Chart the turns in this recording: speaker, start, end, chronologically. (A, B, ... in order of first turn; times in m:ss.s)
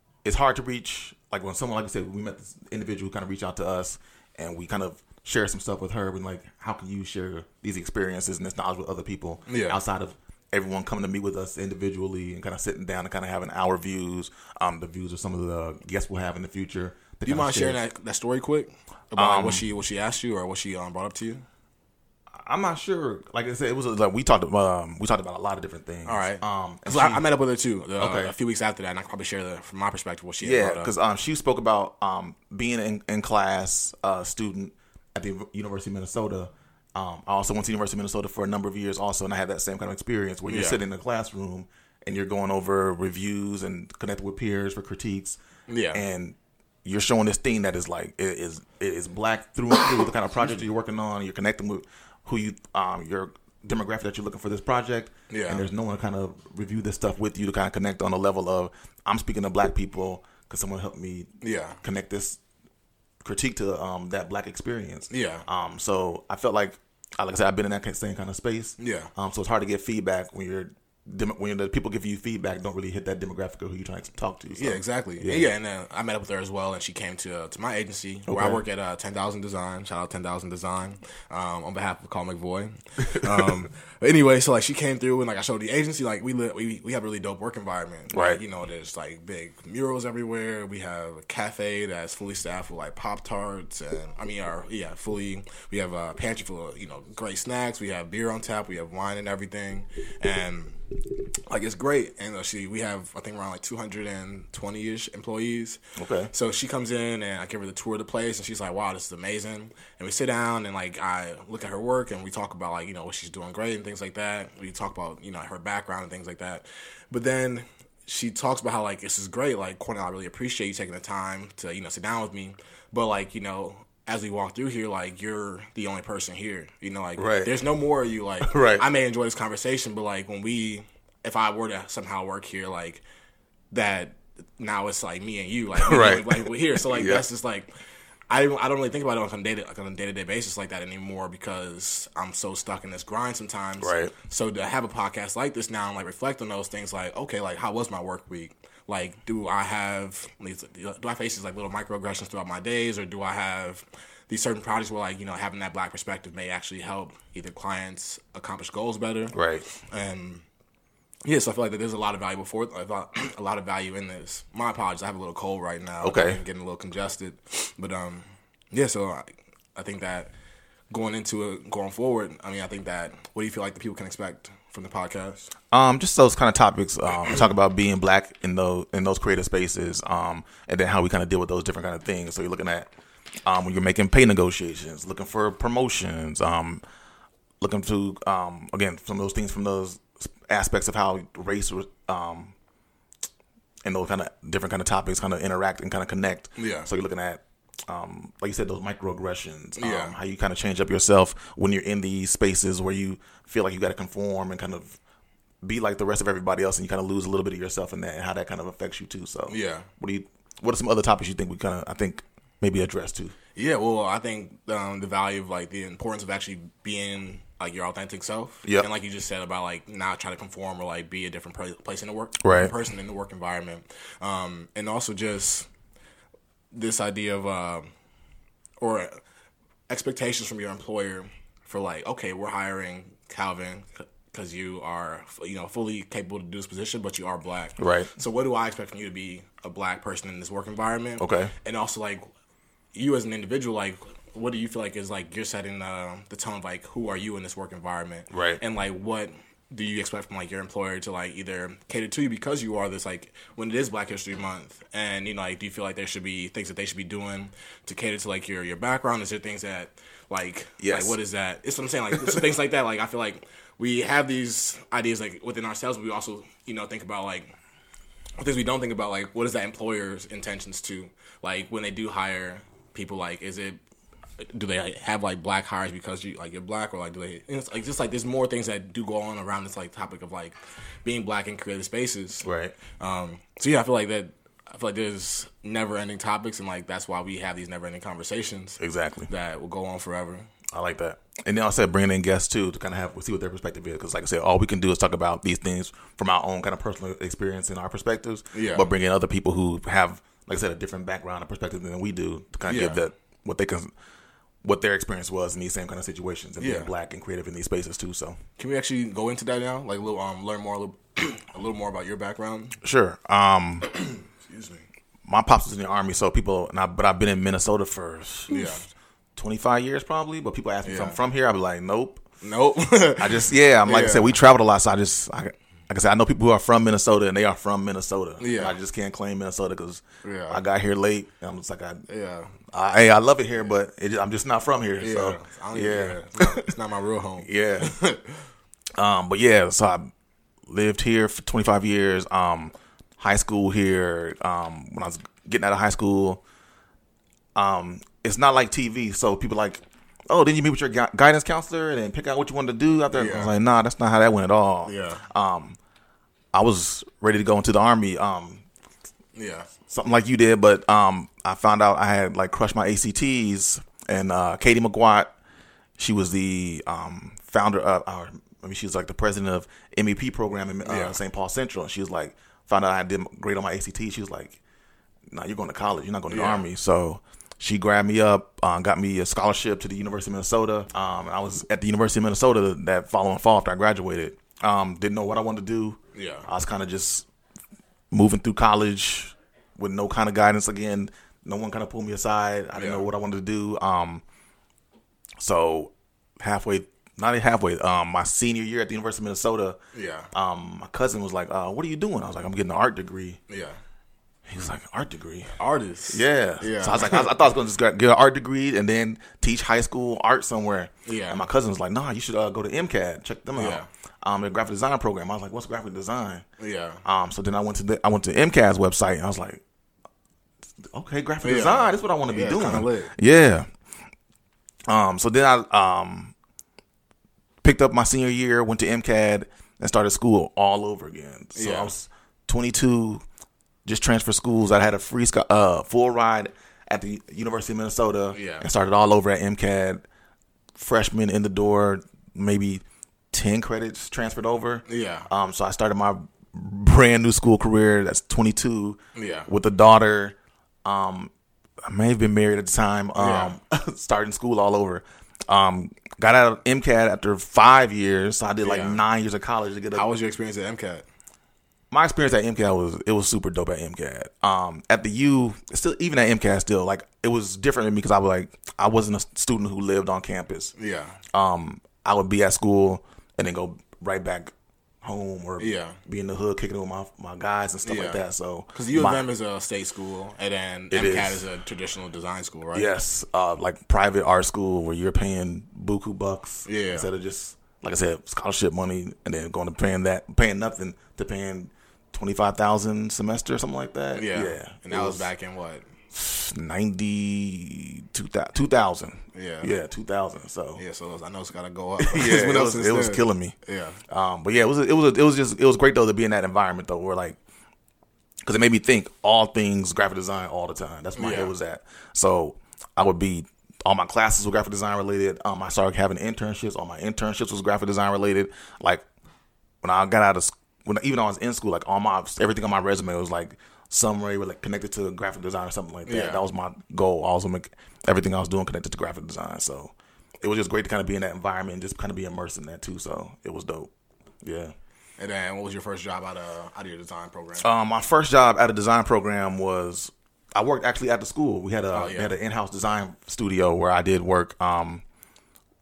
0:00.2-0:17.8 A
0:09.5-0:09.8 B
0:17.2-0:21.4 B
0:19.2-0:19.6 A
0:22.3-0:27.2 A
0:26.0-0:30.9 B
0:28.0-0:28.3 A
0:30.4-0:45.4 A
0:40.5-0:40.8 B
0:45.7-0:46.0 B
0:45.9-1:01.3 A
0:55.3-0:55.6 B
1:01.4-1:01.8 B
1:01.8-1:02.4 A
1:03.2-1:15.5 A
1:05.1-1:05.4 B
1:08.8-1:09.1 B
1:14.6-1:40.8 B
1:18.3-1:18.6 A
1:23.0-1:23.4 A
1:28.1-1:28.4 A
1:41.5-1:45.8 B
1:46.0-1:46.3 A
1:46.3-2:13.0 B
2:07.2-2:07.5 A
2:08.4-2:08.8 A
2:13.7-2:17.7 B
2:15.8-2:17.2 A
2:18.3-2:40.4 B
2:23.8-2:24.1 A
2:39.3-2:39.6 A
2:41.2-2:50.3 B
2:46.0-2:46.4 A
2:50.9-2:55.5 B
2:55.7-3:02.9 A
3:03.4-3:06.8 A
3:07.6-3:12.5 A
3:13.8-3:25.0 A
3:16.6-3:16.9 B
3:19.8-3:20.1 B
3:25.6-3:33.3 A
3:29.5-3:29.9 B
3:33.6-3:45.7 B
3:42.4-3:42.7 A
3:46.7-3:47.9 B
3:48.8-3:49.2 B
3:49.9-4:02.3 B
3:57.8-3:58.1 A
4:01.2-4:01.5 A
4:02.9-4:27.5 B
4:08.3-4:08.6 A
4:20.8-4:21.2 A
4:28.4-4:33.8 B
4:34.4-4:50.5 B
4:42.4-4:42.8 A
4:48.8-4:49.3 A
4:50.7-5:03.9 A
4:58.5-4:58.9 B
5:02.7-5:03.0 B
5:04.6-5:08.4 A
5:06.6-5:06.9 B
5:08.6-5:12.8 B
5:12.8-5:13.9 A
5:14.1-5:14.8 B
5:15.2-5:18.8 A
5:18.5-5:18.8 B
5:19.4-5:22.2 A
5:20.8-5:21.2 B
5:22.4-5:24.4 B
5:23.2-5:32.0 A
5:28.4-5:28.8 B
5:30.2-5:30.6 B
5:32.1-5:32.5 B
5:32.7-5:36.7 A
5:35.0-5:38.4 B
5:37.4-5:37.9 A
5:39.0-5:40.1 A
5:40.7-5:46.4 A
5:47.5-5:55.8 A
5:53.1-5:53.5 B
5:54.8-5:55.2 B
5:56.5-5:58.6 A
5:59.3-5:59.7 B
5:59.9-6:05.3 A
6:06.0-6:14.6 A
6:10.8-6:11.2 B
6:15.3-6:27.3 A
6:16.3-6:16.6 B
6:26.1-6:26.4 B
6:28.1-6:34.2 A
6:32.7-6:33.0 B
6:35.4-6:39.8 A
6:39.9-6:40.3 B
6:40.3-6:43.4 A
6:43.5-6:43.8 B
6:44.5-6:45.5 A
6:45.6-6:47.3 B
6:46.1-6:56.4 A
6:51.0-6:51.4 B
6:53.6-6:53.9 B
6:56.6-6:57.0 B
6:57.0-6:59.6 A
7:00.8-7:03.7 A
7:01.4-7:03.1 B
7:04.9-7:06.3 A
7:07.6-7:13.2 A
7:11.5-7:11.9 B
7:13.8-7:20.0 A
7:18.3-7:18.7 B
7:20.8-7:31.3 A
7:24.9-7:25.3 B
7:29.1-7:29.5 B
7:31.8-7:40.1 A
7:33.2-7:33.5 B
7:38.6-7:39.0 B
7:39.9-7:41.0 B
7:41.9-7:50.7 A
7:50.8-7:51.2 B
7:51.3-7:54.5 A
7:55.0-7:59.2 A
7:55.6-7:56.0 B
7:57.8-7:58.2 B
7:58.7-8:02.9 B
8:00.9-8:01.4 A
8:02.7-8:15.3 A
8:06.6-8:07.1 B
8:14.1-8:15.9 B
8:16.1-8:20.8 A
8:19.3-8:19.7 B
8:20.8-8:24.0 B
8:22.0-8:23.5 A
8:24.1-8:27.4 A
8:28.4-8:39.0 A
8:31.2-8:31.5 B
8:39.8-8:53.9 A
8:46.0-8:46.4 B
8:54.4-8:54.7 A
8:55.2-8:57.7 B
8:57.6-9:05.0 A
9:01.9-9:02.3 B